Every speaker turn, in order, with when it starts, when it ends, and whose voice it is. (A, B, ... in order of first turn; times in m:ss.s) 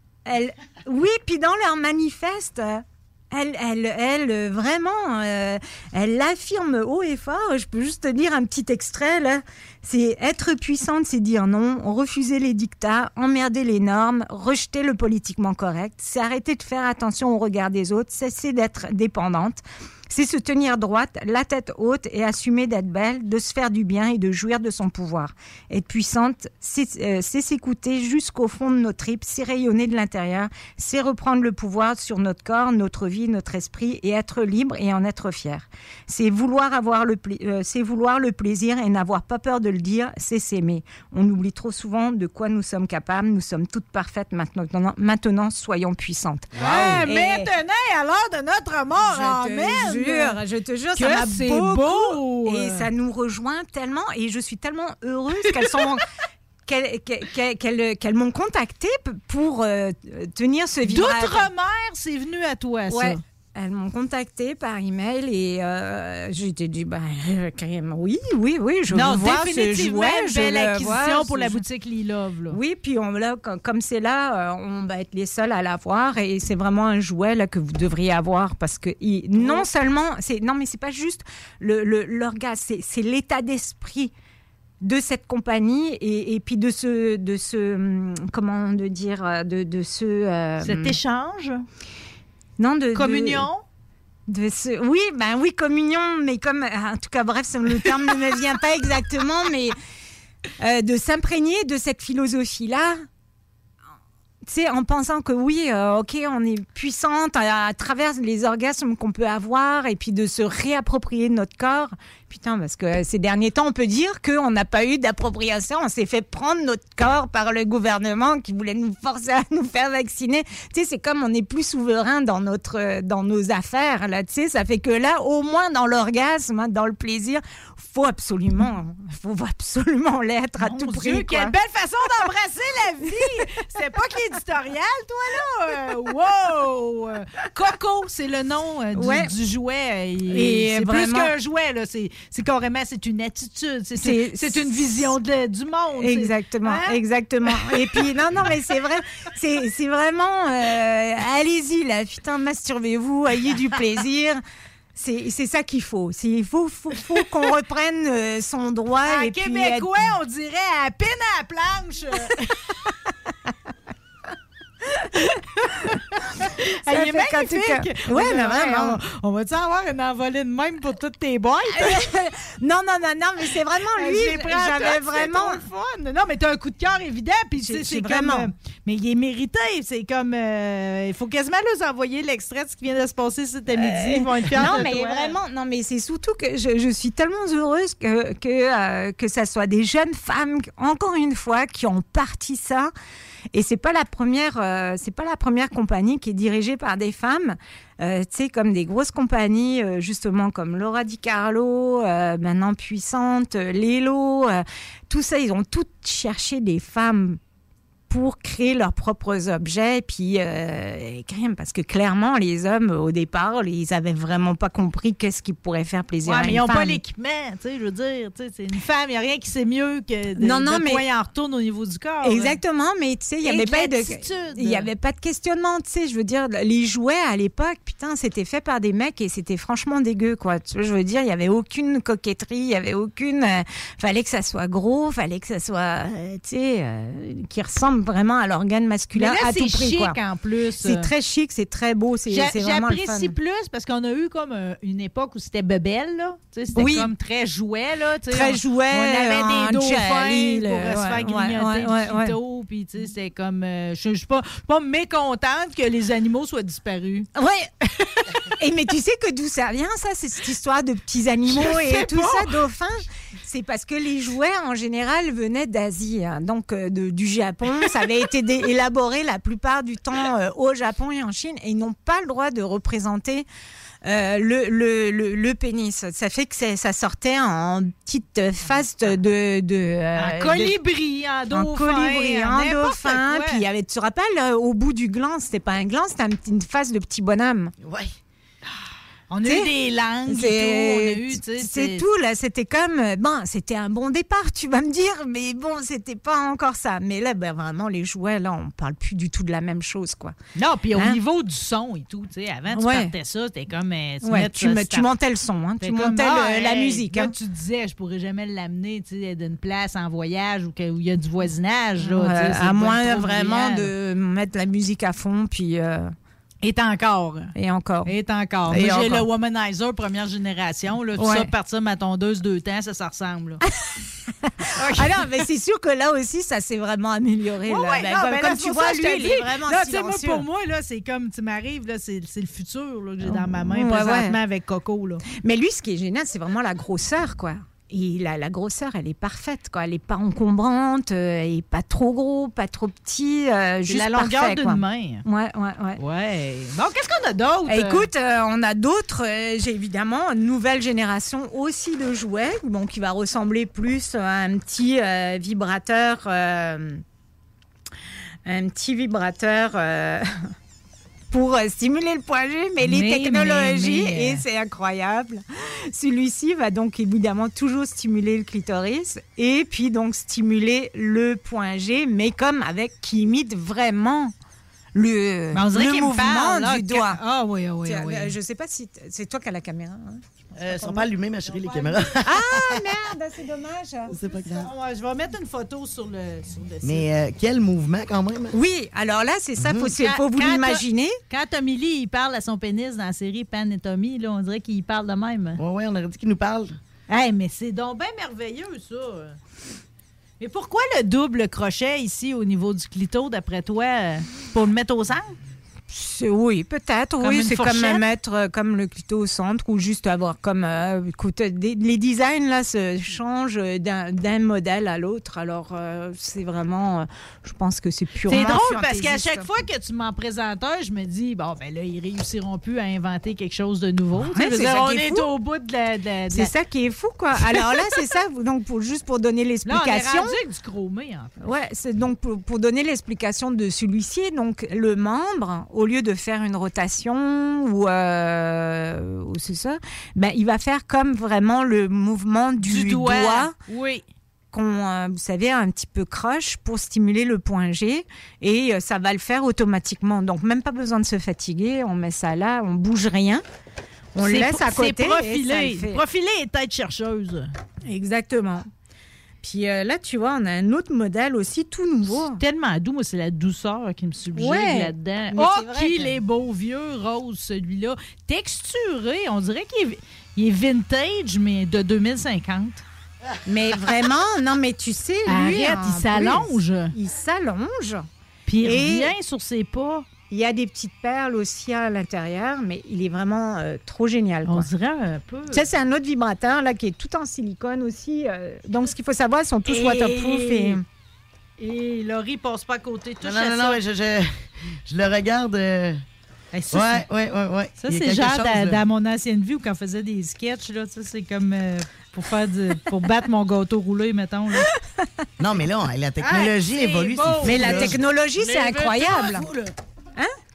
0:00.2-0:47.5 A
0:46.5-0:50.4 B
0:49.0-0:56.0 A
0:50.9-0:52.9 B
0:55.4-0:56.0 B
0:56.7-1:01.5 A
1:00.8-1:03.2 B
1:02.9-1:11.6 A
1:08.9-1:12.6 B
1:12.5-1:24.1 A
1:19.4-1:19.7 B
1:24.8-1:31.0 A
1:30.6-1:31.6 B
1:32.6-1:33.5 A
1:32.9-1:33.6 B
1:34.3-1:39.7 A
1:40.6-1:43.0 A
1:44.4-2:11.5 A
2:10.6-2:28.5 B
2:13.2-2:13.4 A
2:18.9-2:19.3 A
2:20.3-2:21.3 A
2:24.0-2:24.7 A
2:25.9-2:34.4 A
2:35.0-2:40.1 A
2:39.0-2:42.6 B
2:45.6-2:52.1 B
2:46.9-2:49.0 A
2:51.7-2:55.6 A
2:53.9-3:05.4 B
2:57.6-2:58.5 A
3:03.7-3:12.9 A
3:13.5-3:27.4 A
3:28.1-3:37.0 A
3:36.2-3:42.6 B
3:40.4-3:41.0 A
3:42.2-4:00.2 A
3:43.4-3:44.9 B
3:59.1-4:01.1 B
4:00.8-4:03.3 A
4:02.3-4:17.3 B
4:06.7-4:07.1 A
4:08.3-4:12.4 A
4:17.4-4:17.7 A
4:18.6-4:33.4 A
4:21.5-4:22.7 B
4:34.0-4:40.8 A
4:40.2-4:43.6 B
4:41.5-4:47.7 A
4:47.8-4:48.2 C
4:49.3-4:52.0 B
4:49.4-4:49.7 A
4:50.3-5:00.4 A
5:00.6-5:05.1 B
5:00.9-5:01.2 A
5:02.7-5:03.1 A
5:04.2-5:07.3 A
5:05.8-5:13.9 B
5:12.0-5:16.1 A
5:16.6-5:17.5 B
5:17.5-5:18.1 A
5:18.0-5:23.6 B
5:18.7-5:19.2 A
5:21.2-5:21.5 A
5:24.5-5:30.4 A
5:24.8-5:25.4 B
5:27.6-5:35.2 B
5:33.2-5:34.4 A
5:35.3-5:46.0 A
5:43.9-5:45.2 B
5:46.0-5:48.1 B
5:47.7-5:57.0 A
5:58.4-6:00.4 A
6:01.3-6:14.3 A
6:02.8-6:04.4 B
6:14.9-6:17.2 A
6:15.5-6:18.3 B
6:17.8-6:20.2 A
6:20.6-6:22.8 C
6:20.6-6:22.3 B
6:22.2-6:24.2 A
6:24.1-6:24.7 C
6:24.2-6:27.1 B
6:26.8-6:28.5 C
6:28.5-6:31.2 A
6:29.6-6:29.9 C
6:29.8-6:35.6 B
6:35.6-6:36.8 C
6:37.1-6:39.4 B
6:40.4-6:45.3 B
6:45.9-6:59.5 A
6:47.2-6:48.0 B
6:58.2-7:06.5 B
7:04.2-7:05.3 A
7:06.3-7:10.4 A
7:07.4-7:08.1 B
7:09.6-7:11.3 B
7:11.4-7:23.5 A
7:22.6-7:24.0 B
7:24.5-7:33.4 A
7:34.2-7:36.0 A
7:34.2-7:37.5 B
7:37.8-7:38.7 A
7:39.4-7:42.4 A
7:42.1-7:52.8 B
7:44.3-7:46.2 A
7:53.4-7:58.1 A
7:55.2-7:56.9 B
7:58.5-8:00.1 B
7:58.6-7:59.1 A
8:00.3-8:04.7 A
8:04.4-8:05.7 B
8:05.5-8:10.8 A
8:09.6-8:10.8 B
8:11.6-8:13.8 B
8:13.2-8:16.0 C
8:16.5-8:17.0 B
8:16.7-8:18.8 C
8:17.8-8:24.7 B
8:25.4-8:28.0 C
8:26.2-8:29.4 B
8:27.4-8:29.4 A
8:29.2-8:29.6 C